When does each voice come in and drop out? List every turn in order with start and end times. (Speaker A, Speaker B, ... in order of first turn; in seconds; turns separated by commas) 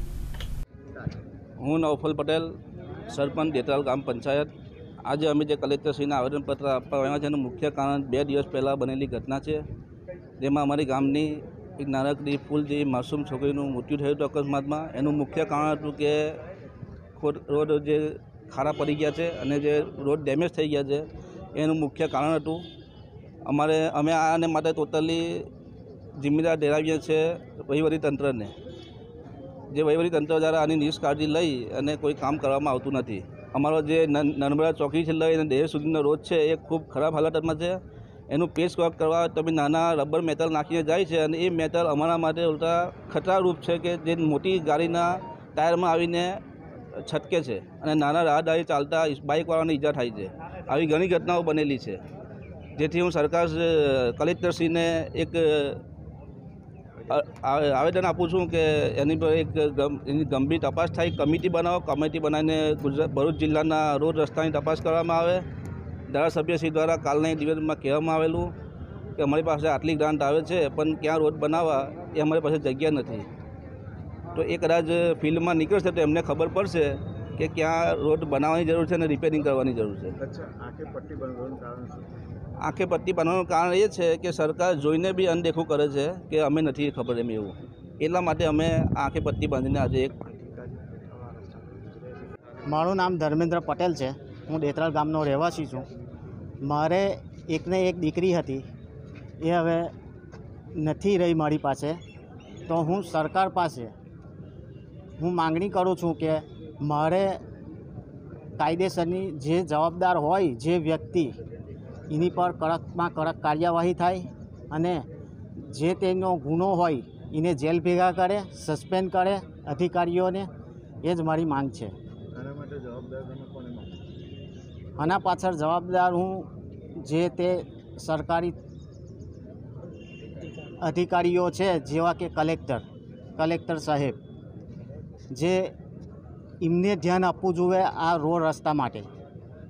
Speaker A: 1.6-2.5, Speaker A: 3.1-4.5, Speaker A: 5.1-9.7, Speaker A: 10.4-16.4, Speaker A: 17.2-22.6, Speaker A: 23.5-25.5, Speaker A: 26.2-28.5, Speaker A: 29.7-37.8, Speaker A: 38.3-46.4, Speaker A: 47.0-52.0, Speaker A: 52.8-55.8, Speaker A: 57.1-65.4, Speaker A: 66.1-68.5, Speaker A: 69.2-73.3, Speaker A: 74.3-80.2, Speaker B: 80.2-82.1, Speaker A: 82.6-90.2, Speaker B: 90.4-92.0, Speaker C: 92.7-95.9, Speaker C: 96.6-98.6, Speaker C: 99.4-99.9, Speaker C: 100.8-102.0, Speaker C: 102.7-103.9, Speaker C: 105.2-107.4, Speaker C: 108.6-111.3, Speaker C: 112.1-115.0, Speaker C: 115.6-120.5, Speaker C: 121.0-121.9, Speaker B: 122.3-124.1, Speaker C: 125.0-126.5, Speaker C: 127.0-128.5, Speaker C: 130.8-132.8, Speaker C: 133.4-134.2, Speaker C: 135.3-135.7, Speaker C: 136.6-139.1